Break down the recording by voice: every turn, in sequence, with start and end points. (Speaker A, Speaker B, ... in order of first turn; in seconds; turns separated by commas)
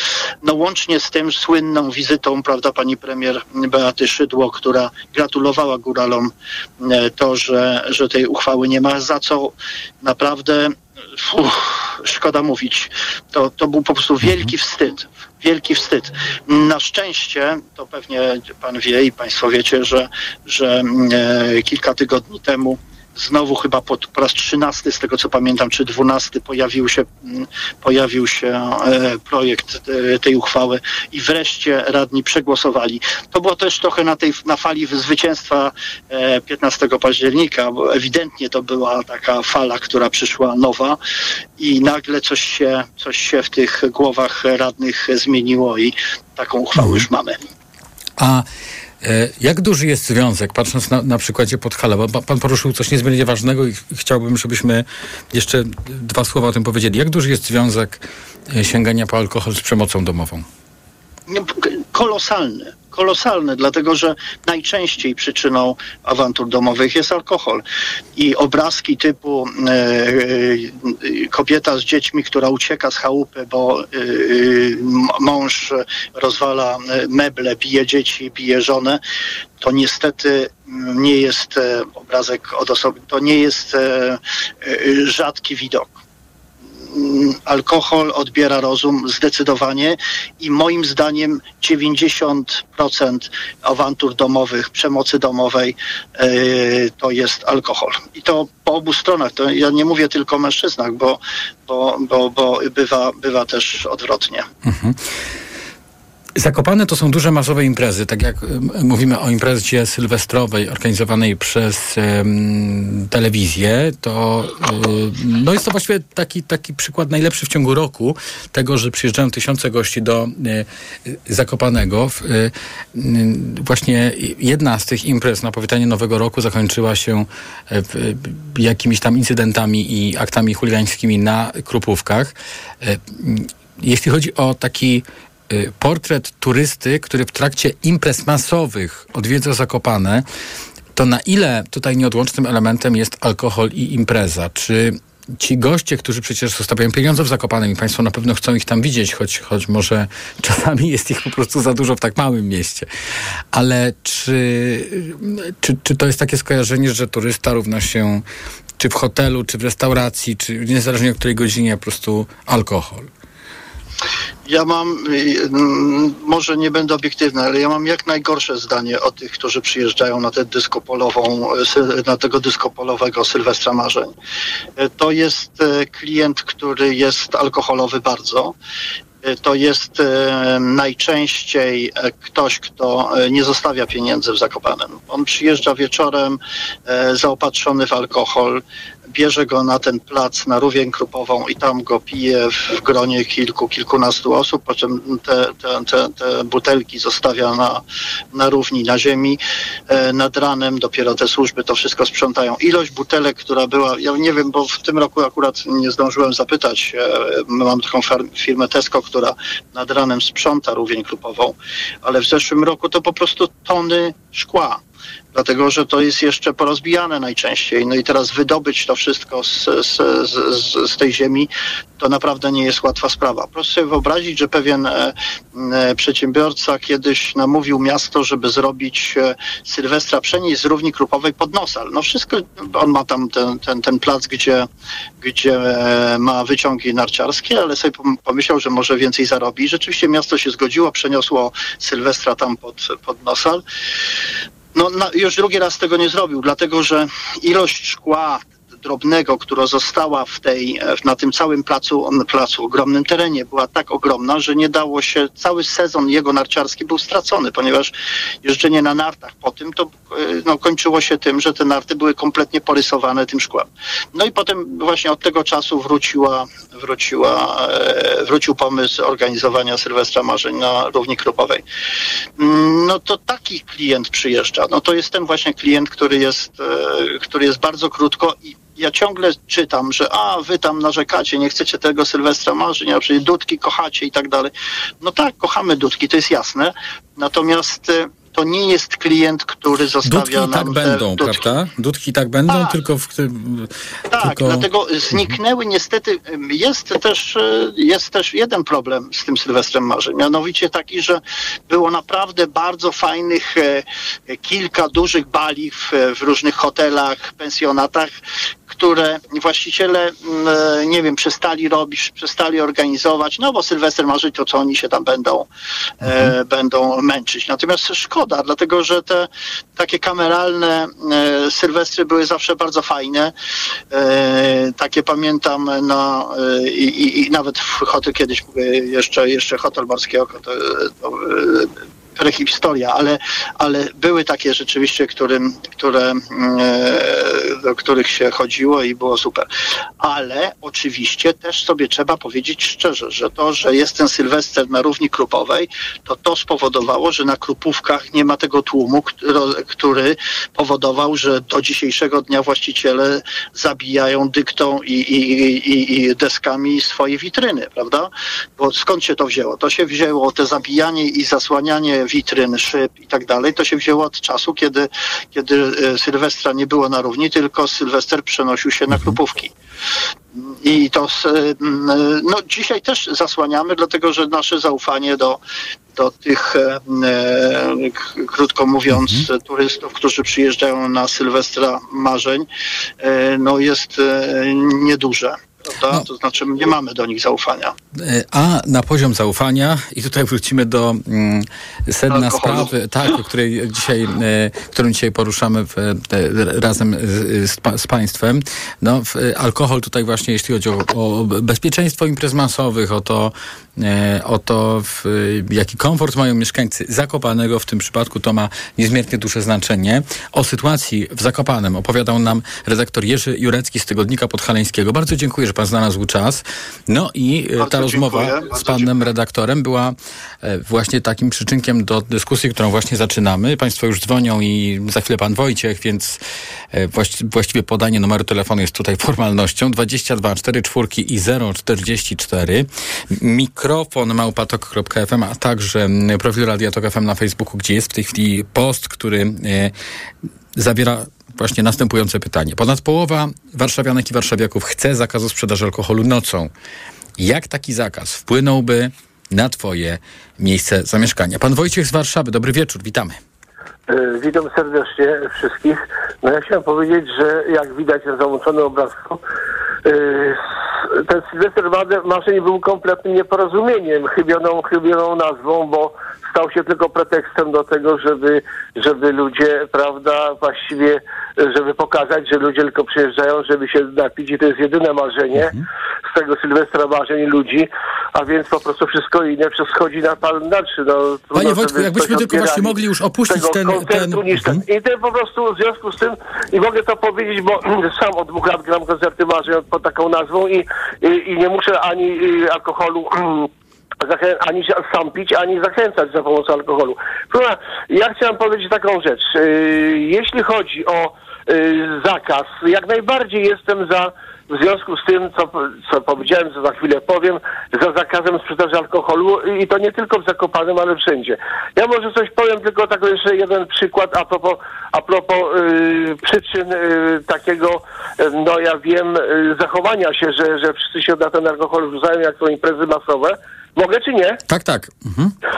Speaker A: 0.4-41.0, Speaker B: 14.2-14.5, Speaker A: 41.6-47.4, Speaker B: 46.8-47.0, Speaker B: 48.2-48.5, Speaker B: 49.0-60.5, Speaker A: 61.3-67.6, Speaker A: 68.2-79.0, Speaker A: 79.6-86.0, Speaker A: 86.9-104.5, Speaker B: 104.6-105.0, Speaker B: 106.4-140.2, Speaker B: 140.9-152.9, Speaker B: 153.5-158.2, Speaker B: 158.8-163.1, Speaker A: 164.4-174.1, Speaker A: 174.8-178.5, Speaker A: 179.2-188.6, Speaker A: 189.1-197.8, Speaker A: 198.3-214.8, Speaker A: 215.3-234.7, Speaker A: 235.2-243.6, Speaker A: 244.7-257.9, Speaker A: 258.4-271.6, Speaker A: 272.4-291.5, Speaker B: 290.0-295.3, Speaker A: 292.5-292.7, Speaker A: 294.1-308.1, Speaker A: 308.7-315.5, Speaker A: 316.0-323.3, Speaker B: 316.0-316.3, Speaker A: 323.9-339.5, Speaker A: 340.0-369.5, Speaker A: 370.4-375.4, Speaker A: 375.9-382.5, Speaker B: 378.9-379.2, Speaker A: 383.0-387.7, Speaker B: 388.0-426.2, Speaker A: 392.1-392.7, Speaker A: 417.6-418.9, Speaker B: 426.7-439.7, Speaker B: 440.6-446.5, Speaker B: 447.2-453.1, Speaker C: 453.9-459.2, Speaker C: 459.8-493.5, Speaker B: 481.3-484.6, Speaker C: 494.0-524.4, Speaker B: 524.5-525.3